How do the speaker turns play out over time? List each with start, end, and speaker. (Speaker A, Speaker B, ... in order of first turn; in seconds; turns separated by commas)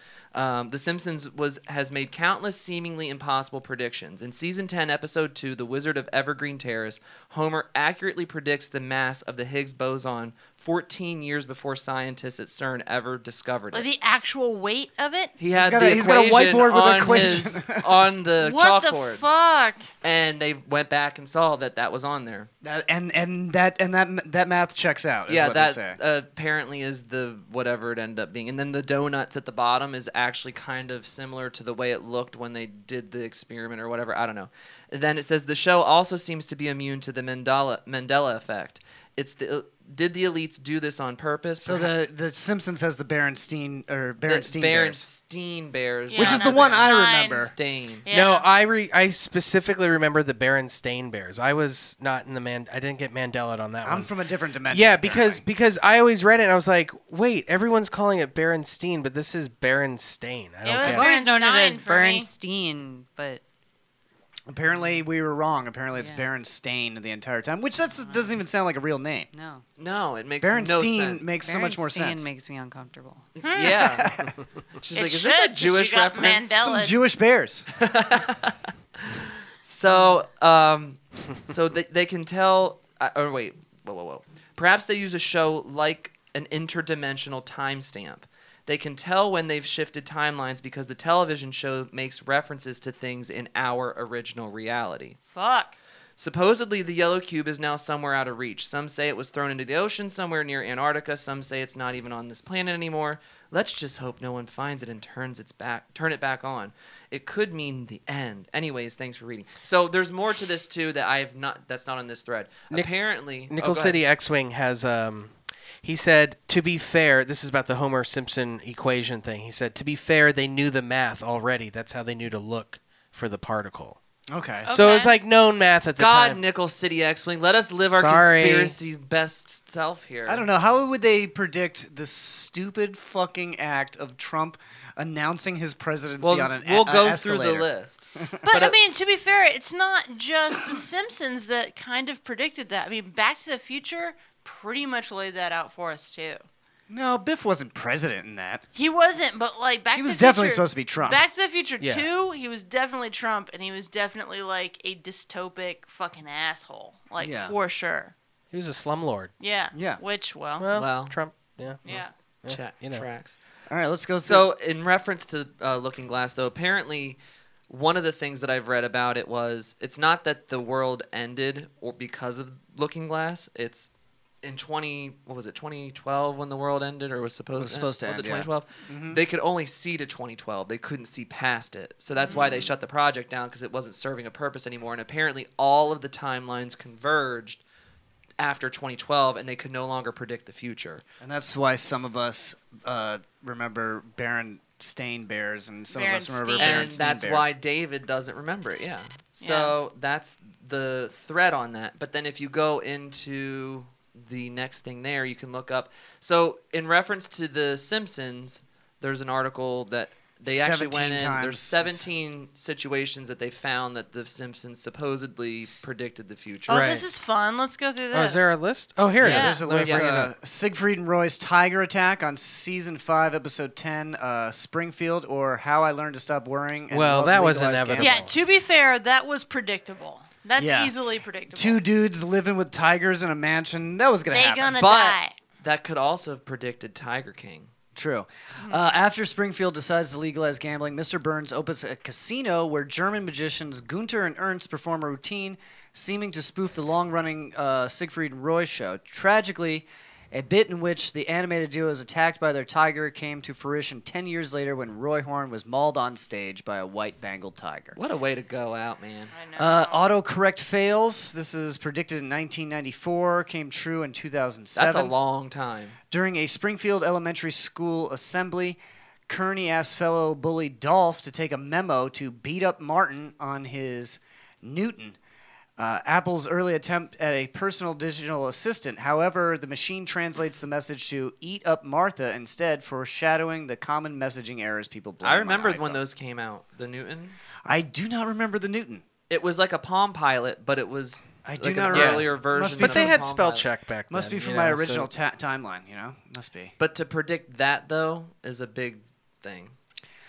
Speaker A: 0.3-13.9, Speaker B: 13.7-15.3, Speaker A: 15.4-19.2, Speaker C: 15.5-17.8, Speaker B: 18.4-19.8, Speaker A: 20.0-22.5, Speaker C: 22.6-26.0, Speaker A: 25.3-41.9, Speaker C: 41.6-45.0, Speaker A: 44.2-48.0, Speaker B: 46.1-47.5, Speaker C: 46.1-47.5, Speaker B: 48.0-48.5, Speaker D: 48.1-54.1, Speaker C: 53.8-55.4, Speaker D: 54.7-61.1, Speaker B: 60.6-62.3, Speaker E: 60.8-63.4, Speaker C: 64.5-69.3, Speaker E: 65.9-66.3, Speaker E: 68.0-68.4, Speaker E: 69.3-69.6, Speaker A: 69.8-71.4, Speaker C: 70.4-72.3, Speaker E: 71.4-73.3, Speaker A: 73.3-74.1, Speaker B: 73.4-74.0, Speaker C: 73.7-74.3, Speaker A: 74.8-76.5, Speaker B: 74.9-77.0, Speaker C: 76.6-77.7, Speaker A: 77.8-95.2, Speaker B: 95.3-95.7, Speaker A: 96.2-114.0, Speaker D: 112.7-124.0, Speaker C: 124.3-124.8, Speaker B: 124.7-125.2, Speaker D: 124.7-126.4, Speaker A: 126.0-130.5, Speaker D: 127.8-128.7, Speaker C: 130.2-138.4, Speaker A: 136.2-138.7, Speaker B: 138.4-146.4, Speaker C: 146.9-148.6, Speaker B: 148.7-158.1, Speaker C: 149.9-151.2, Speaker D: 151.8-152.1, Speaker C: 157.2-157.5, Speaker D: 158.5-159.3, Speaker B: 159.4-160.7, Speaker C: 159.7-160.0, Speaker D: 160.6-161.9, Speaker A: 160.7-161.2, Speaker B: 161.8-162.1, Speaker D: 162.4-163.1, Speaker A: 162.5-163.4, Speaker C: 163.7-164.4, Speaker A: 164.2-167.2, Speaker A: 167.7-173.9, Speaker A: 174.4-187.6, Speaker C: 177.6-179.2, Speaker B: 182.2-182.7, Speaker A: 188.4-191.0, Speaker C: 191.2-197.5, Speaker B: 195.9-196.9, Speaker A: 196.6-216.8, Speaker B: 199.4-199.7, Speaker C: 210.4-212.1, Speaker B: 216.7-218.6, Speaker D: 216.7-217.1, Speaker D: 218.1-220.3, Speaker C: 219.2-228.2, Speaker B: 219.2-219.6, Speaker A: 219.8-220.0, Speaker D: 226.9-228.3, Speaker B: 228.0-231.8, Speaker C: 230.6-230.9, Speaker C: 231.5-234.8, Speaker B: 234.3-235.3, Speaker A: 234.8-237.7, Speaker C: 237.9-258.0, Speaker B: 238.6-239.0, Speaker A: 257.9-259.3, Speaker B: 259.3-260.1, Speaker C: 259.6-265.1, Speaker A: 264.7-266.0, Speaker C: 266.1-275.2, Speaker C: 275.8-286.0, Speaker A: 285.2-287.4, Speaker C: 287.6-289.0, Speaker A: 289.3-293.7, Speaker C: 291.4-293.2, Speaker D: 291.9-295.1, Speaker C: 294.1-296.7, Speaker A: 296.8-299.7